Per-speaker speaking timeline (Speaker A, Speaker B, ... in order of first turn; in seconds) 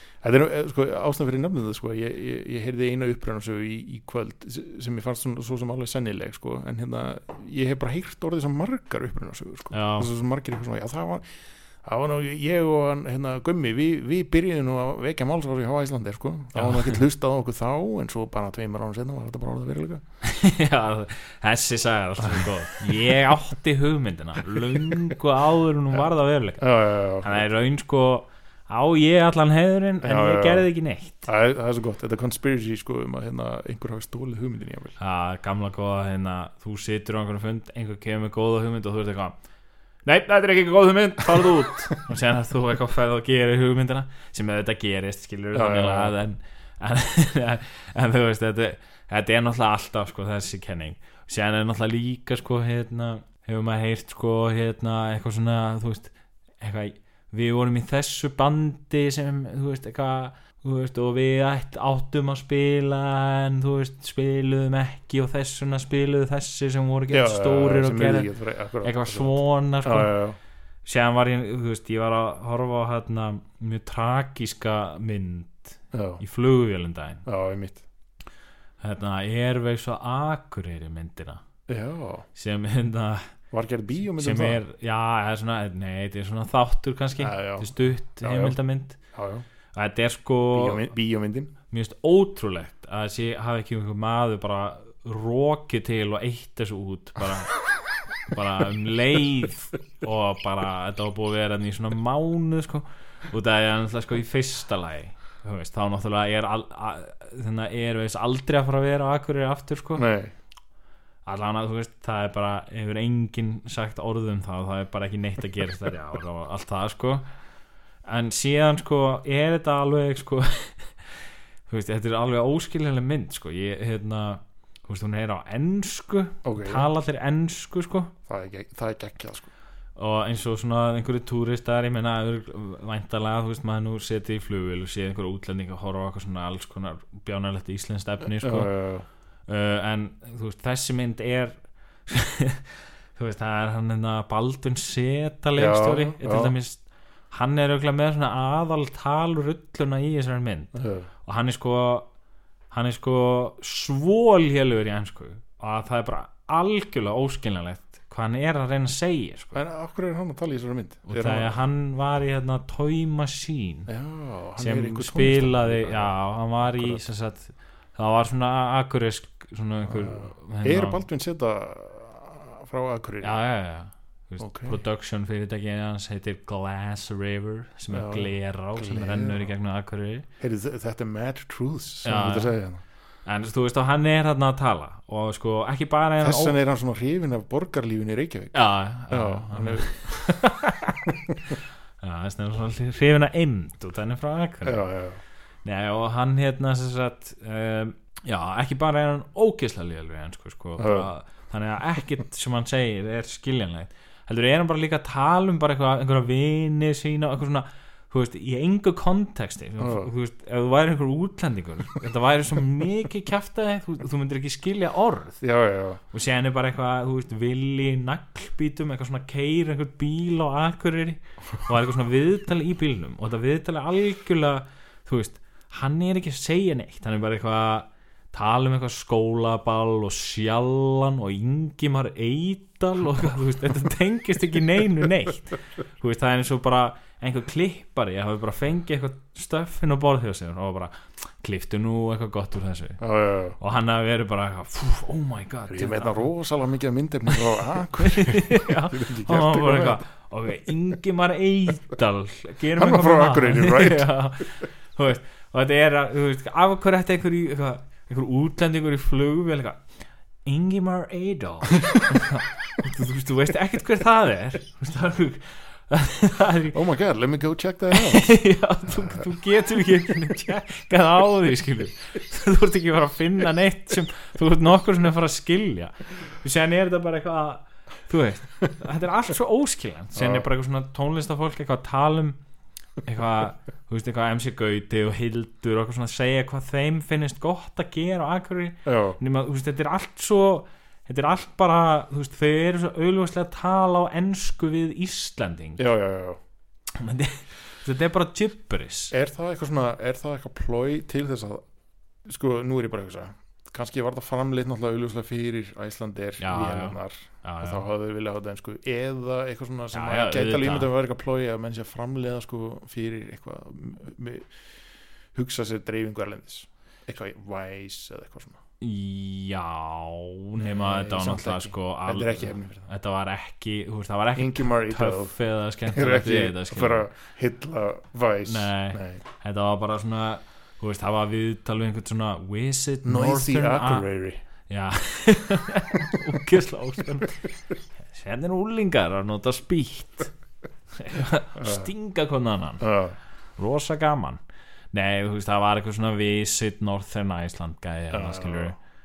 Speaker A: 0.2-11.3, 11.8-20.0, 26.6-27.4, 30.0-30.7, 31.2-35.0, 45.5-46.1, 67.1-70.4, 75.9-76.2, 77.2-77.8, 81.7-82.2, 83.5-84.6, 87.2-89.4, 90.5-91.5, 110.0-110.3, 126.4-126.9, 128.3-129.5, 138.4-139.1, 145.6-146.5, 150.7-151.1, 159.5-161.6, 163.9-167.0, 169.9-173.3, 174.4-174.8, 177.9-179.5, 180.4-182.8, 186.2-190.4, 194.6-195.2, 200.8-201.1, 209.8-210.1, 215.4-216.0, 243.0-243.6, 245.7-250.0, 252.8-254.1, 266.7-268.3, 268.9-269.2, 280.1-280.4, 288.8-289.2, 295.8-296.4, 299.1-301.6, 302.2-314.5, 315.3-318.6, 320.6-322.9, 324.4-325.4, 325.9-329.2, 333.0-334.4, 341.6-341.9, 342.8-343.1, 348.1-348.7
Speaker B: 9.7-10.1, 16.5-17.0, 20.2-31.3, 35.0-39.4, 40.0-68.3, 68.8-70.2, 70.8-77.2, 78.8-81.4, 82.3-83.3, 84.2-89.0, 89.7-90.9, 91.7-97.6, 98.2-110.0, 111.2-117.2, 118.0-121.1, 121.7-128.1, 129.9-138.7, 139.5-152.1, 152.7-159.6, 161.1-163.9, 164.6-171.0, 173.2-180.2, 182.0-182.6, 183.2-186.6, 188.5-191.1, 192.0-194.9, 195.6-215.4, 216.1-243.0, 243.6-246.3, 247.3-259.8, 260.4-266.8, 267.9-282.4, 283.0-295.8, 297.0-299.1, 306.4-307.8, 309.9-310.9, 318.8-327.1, 328.4-334.1, 334.7-337.5, 338.1-340.3, 341.0-342.9, 343.6-344.4, 344.9-348.8